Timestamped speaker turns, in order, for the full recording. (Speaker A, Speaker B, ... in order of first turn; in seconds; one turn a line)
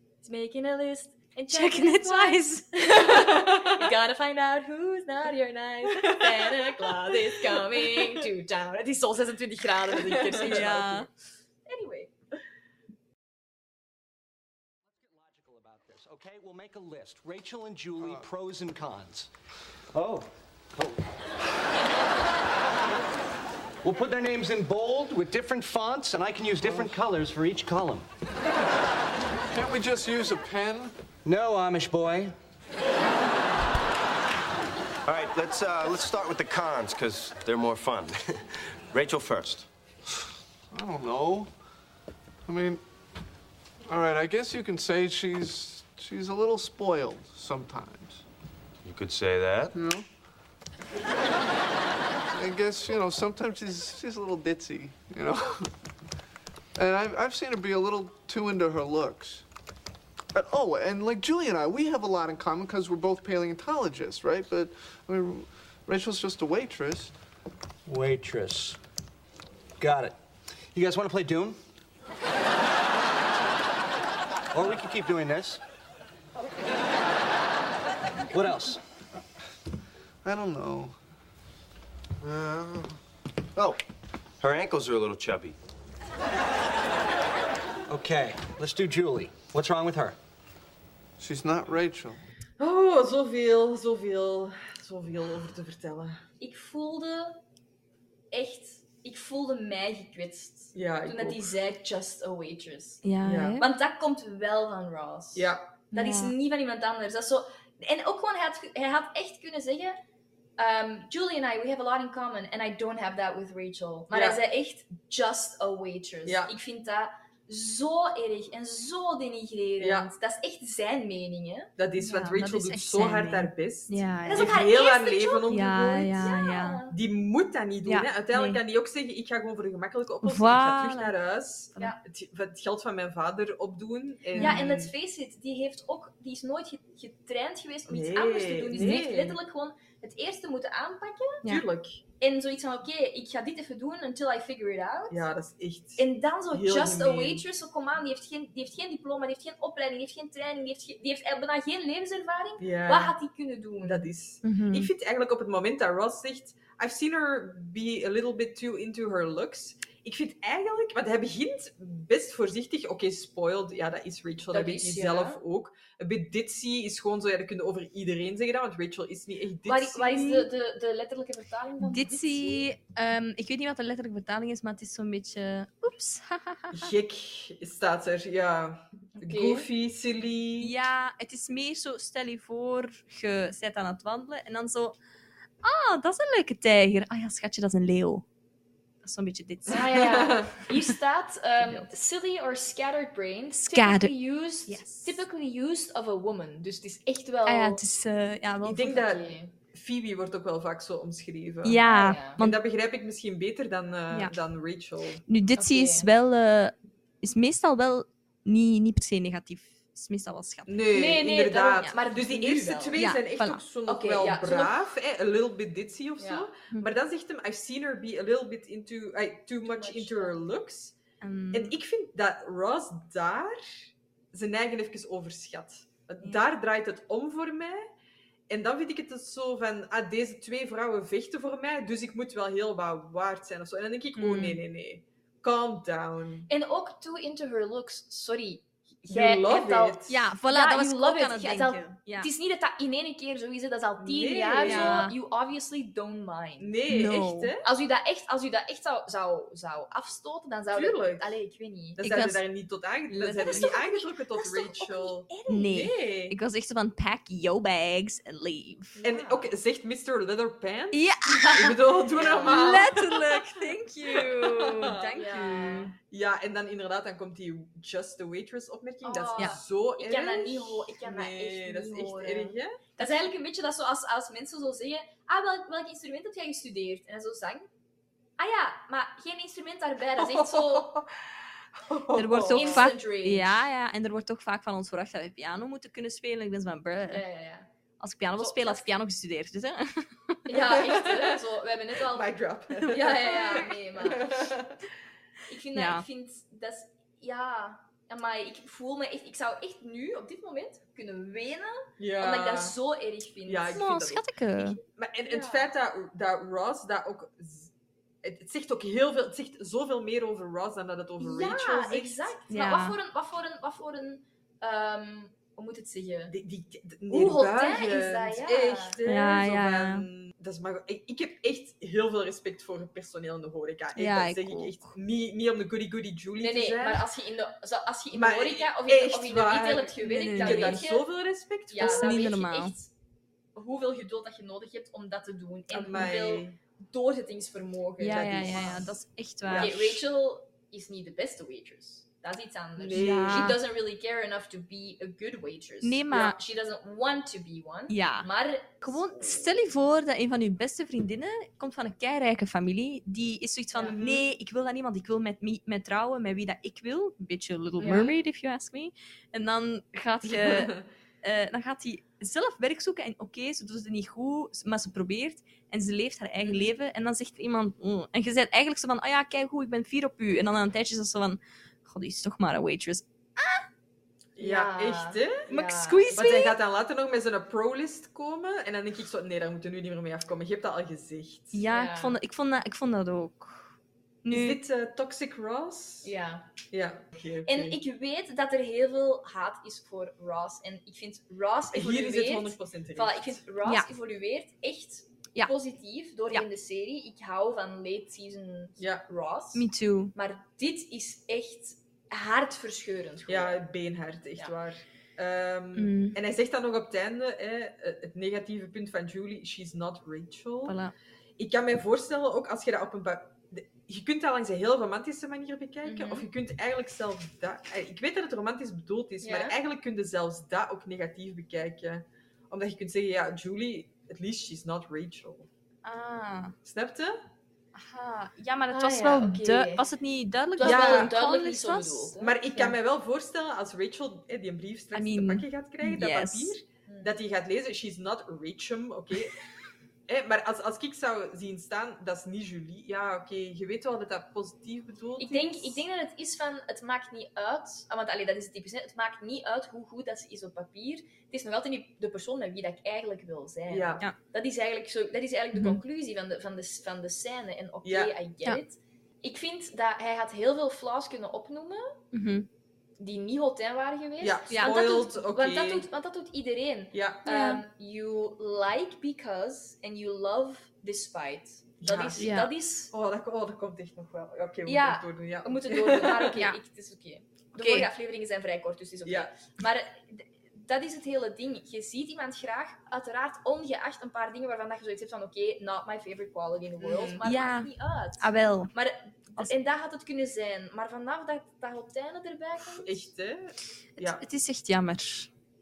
Speaker A: 0.2-11.1
Speaker B: 1.5-3.3
Speaker C: 6.0-6.9
Speaker C: 10.0-10.7
Speaker B: 10.3-11.1
Speaker A: 11.7-12.1
Speaker D: 14.8-19.3
Speaker E: 18.0-18.2
Speaker D: 19.9-21.0
Speaker D: 23.8-28.1
Speaker E: 26.6-27.0
Speaker E: 29.5-30.9
Speaker D: 31.2-32.3
Speaker F: 35.0-39.7
Speaker E: 40.7-41.5
Speaker E: 42.5-42.8
Speaker E: 43.9-48.2
Speaker F: 48.8-49.7
Speaker E: 49.7-50.0
Speaker E: 52.3-55.7
Speaker E: 56.8-59.4
Speaker E: 60.3-67.1
Speaker D: 67.9-68.8
Speaker D: 69.8-70.2
Speaker D: 70.7-71.6
Speaker D: 74.5-75.6
Speaker D: 78.3-78.8
Speaker E: 80.2-81.0
Speaker E: 82.2-83.0
Speaker F: 84.4-85.6
Speaker D: 87.9-90.2
Speaker E: 91.2-92.2
Speaker C: 92.6-96.2
Speaker A: 96.4-97.4
Speaker A: 98.3-103.0
Speaker C: 100.7-101.5
Speaker B: 103.0-103.7
Speaker C: 103.2-103.6
Speaker A: 103.6-110.0
Speaker C: 105.3-105.7
Speaker B: 105.9-106.3
Speaker A: 110.6-121.7
Speaker C: 114.1-114.4
Speaker C: 116.3-116.5
Speaker C: 119.8-120.1
Speaker C: 121.8-126.3
Speaker B: 122.0-124.7
Speaker A: 124.3-125.5
Speaker B: 125.5-126.8
Speaker A: 126.1-127.0
Speaker C: 126.9-134.9
Speaker B: 127.9-128.6
Speaker B: 130.2-131.1
Speaker B: 134.4-134.6
Speaker A: 134.4-141.4
Speaker C: 137.9-139.4
Speaker B: 138.7-139.0
Speaker C: 141.4-142.0
Speaker A: 142.2-145.2
Speaker C: 145.1-147.4
Speaker A: 146.0-154.1
Speaker C: 152.6-153.2
Speaker C: 153.8-170.4
Speaker B: 154.4-154.9
Speaker A: 164.5-165.4
Speaker A: 169.7-172.7
Speaker B: 171.8-176.9
Speaker C: 176.7-180.7
Speaker A: 179.2-179.7
Speaker B: 180.6-185.0
Speaker B: 185.6-188.2
Speaker B: 189.0-190.8
Speaker A: 189.7-197.8
Speaker C: 189.8-190.5
Speaker B: 193.7-194.1
Speaker B: 194.7-195.2
Speaker B: 197.4-199.0
Speaker C: 198.6-201.8
Speaker A: 198.8-199.5
Speaker B: 201.6-202.6
Speaker A: 201.8-202.4
Speaker C: 202.4-205.2
Speaker B: 205.3-210.8
Speaker A: 205.6-206.1
Speaker C: 210.7-220.9
Speaker A: 210.9-213.1
Speaker B: 212.9-213.6
Speaker A: 213.9-214.8
Speaker A: 216.2-216.5
Speaker A: 219.6-220.4
Speaker B: 221.2-221.7
Speaker C: 221.5-227.8
Speaker C: 228.5-236.5
Speaker B: 234.2-234.6
Speaker A: 236.5-246.7
Speaker C: 239.1-240.1
Speaker B: 240.1-242.3
Speaker C: 244.0-245.1
Speaker B: 244.6-245.2
Speaker C: 246.6-247.7
Speaker B: 246.9-247.5
Speaker A: 247.6-252.0
Speaker C: 250.7-251.4
Speaker C: 252.0-256.4
Speaker B: 252.0-252.4
Speaker B: 253.1-253.8
Speaker A: 253.1-255.9
Speaker B: 255.5-259.1
Speaker A: 258.9-259.4
Speaker C: 259.0-265.0
Speaker B: 260.9-261.8
Speaker A: 262.1-262.9
Speaker B: 262.4-265.9
Speaker A: 265.2-265.9
Speaker C: 266.1-272.8
Speaker A: 269.0-277.7
Speaker A: 278.4-281.0
Speaker C: 280.2-281.1
Speaker C: 281.8-282.9
Speaker B: 282.1-287.2
Speaker A: 282.5-283.6
Speaker A: 287.1-287.7
Speaker B: 288.0-290.4
Speaker A: 288.4-288.8
Speaker A: 290.4-292.3
Speaker C: 290.5-291.3
Speaker C: 292.1-294.8
Speaker A: 292.8-294.6
Speaker A: 295.5-303.8
Speaker B: 295.7-296.1
Speaker C: 302.0-302.8
Speaker C: 303.4-307.7
Speaker B: 303.7-304.8
Speaker A: 305.3-305.7
Speaker C: 308.2-312.3
Speaker A: 311.2-316.3
Speaker B: 312.5-313.0
Speaker C: 316.3-327.1
Speaker A: 317.1-319.0
Speaker B: 319.1-320.1
Speaker B: 323.9-324.9
Speaker A: 326.4-331.1
Speaker C: 328.1-332.2
Speaker B: 330.0-330.9
Speaker A: 331.7-332.9
Speaker B: 331.8-332.7
Speaker A: 333.6-338.9
Speaker B: 335.7-336.1
Speaker C: 335.8-336.6
Speaker B: 338.0-340.0
Speaker C: 338.1-338.9
Speaker C: 339.5-339.9
Speaker A: 339.5-349.4
Speaker C: 342.8-343.6
Speaker B: 342.9-343.6
Speaker B: 345.8-346.4
Speaker B: 347.9-348.3
Speaker B: 348.8-373.6
Speaker A: 353.7-354.0
Speaker C: 353.9-354.3
Speaker A: 357.8-358.1
Speaker C: 360.3-360.8
Speaker A: 366.4-366.7
Speaker C: 374.4-375.5
Speaker A: 374.4-376.1
Speaker B: 375.5-376.6
Speaker C: 376.1-381.6
Speaker B: 381.5-383.7
Speaker A: 381.7-382.2
Speaker B: 384.2-384.6
Speaker C: 384.3-386.1
Speaker A: 386.0-386.5
Speaker C: 386.7-387.8
Speaker A: 387.4-403.6
Speaker C: 391.7-393.4
Speaker B: 393.6-393.9
Speaker C: 398.8-399.1
Speaker B: 399.6-400.1
Speaker C: 403.3-410.8
Speaker B: 405.8-406.2
Speaker B: 410.6-410.9
Speaker C: 411.4-425.5
Speaker A: 415.8-416.3
Speaker A: 419.2-419.6
Speaker B: 425.8-426.6
Speaker C: 426.6-427.3
Speaker B: 427.7-432.1
Speaker A: 428.7-429.8
Speaker A: 430.6-432.8
Speaker C: 430.6-431.1
Speaker C: 432.2-439.4
Speaker B: 434.9-436.6
Speaker A: 436.9-437.1
Speaker C: 440.1-445.8
Speaker A: 445.2-462.0
Speaker C: 453.7-454.0
Speaker B: 455.5-455.8
Speaker C: 457.8-458.1
Speaker B: 462.1-462.5
Speaker A: 463.0-472.9
Speaker C: 464.2-465.9
Speaker B: 464.5-464.8
Speaker C: 466.9-467.3
Speaker B: 467.3-467.6
Speaker C: 471.8-472.3
Speaker B: 472.1-472.5
Speaker C: 472.9-476.4
Speaker A: 474.7-493.1
Speaker B: 477.6-477.9
Speaker C: 479.1-479.3
Speaker C: 486.8-487.2
Speaker B: 487.2-488.7
Speaker C: 492.6-494.2
Speaker B: 494.0-495.3